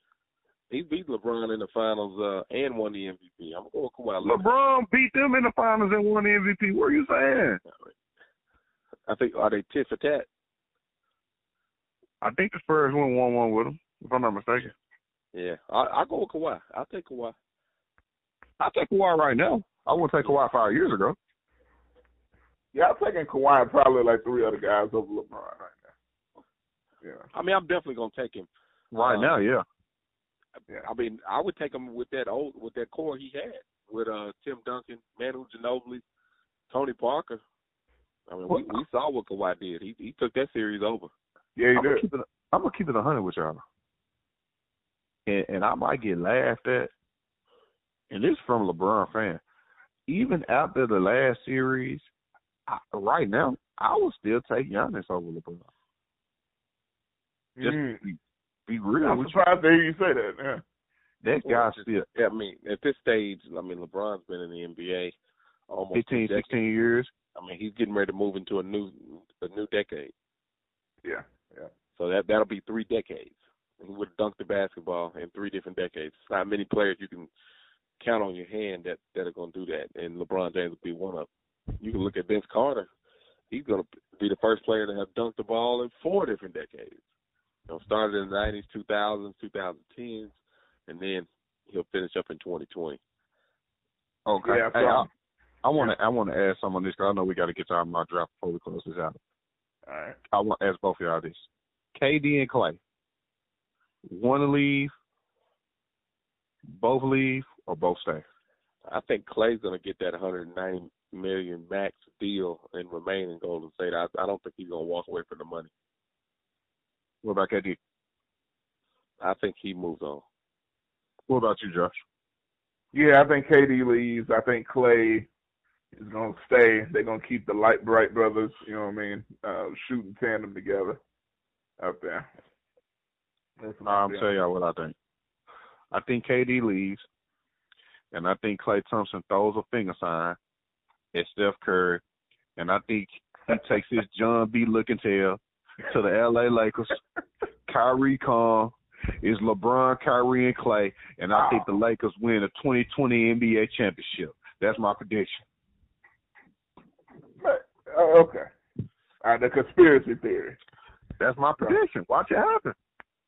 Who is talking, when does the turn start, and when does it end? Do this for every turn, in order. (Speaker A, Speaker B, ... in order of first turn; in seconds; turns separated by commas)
Speaker A: 0.7-4.4, Speaker B: 4.2-7.6, Speaker A: 7.7-7.9, Speaker A: 9.1-10.3, Speaker B: 12.2-14.7, Speaker A: 15.3-17.4, Speaker B: 18.6-21.2, Speaker C: 22.7-25.8, Speaker A: 27.3-29.3, Speaker B: 28.9-29.6, Speaker A: 30.7-36.0, Speaker A: 36.7-37.4, Speaker A: 38.3-41.1, Speaker B: 38.5-38.8, Speaker C: 41.5-42.0, Speaker B: 41.7-43.6, Speaker B: 45.2-46.9, Speaker B: 48.1-49.4, Speaker B: 50.1-52.0, Speaker B: 52.7-55.7, Speaker C: 57.6-58.0, Speaker B: 57.6-59.4, Speaker C: 59.0-60.6, Speaker B: 61.2-62.1, Speaker A: 61.4-65.2, Speaker A: 65.7-66.5, Speaker B: 65.9-67.1, Speaker A: 67.3-70.1, Speaker C: 71.0-71.7, Speaker A: 72.0-77.3, Speaker A: 78.0-81.3, Speaker A: 81.8-82.9, Speaker A: 83.5-87.0, Speaker A: 87.7-90.3, Speaker A: 90.9-93.0, Speaker B: 94.2-95.1, Speaker C: 94.4-95.1, Speaker B: 95.6-99.2, Speaker C: 99.8-100.2, Speaker B: 100.3-102.8, Speaker B: 104.0-104.9, Speaker B: 106.7-108.2, Speaker A: 108.9-115.7, Speaker B: 117.2-117.8, Speaker A: 119.2-120.2, Speaker B: 121.3-122.0, Speaker C: 122.9-125.3, Speaker C: 126.0-131.0, Speaker C: 131.8-132.3, Speaker C: 133.6-134.3, Speaker B: 133.8-134.9, Speaker B: 135.9-137.1, Speaker B: 138.1-140.4, Speaker B: 141.1-142.0, Speaker B: 142.6-147.0, Speaker B: 147.7-155.4, Speaker C: 151.3-151.7, Speaker C: 157.4-158.5, Speaker C: 159.2-160.6, Speaker B: 161.2-162.8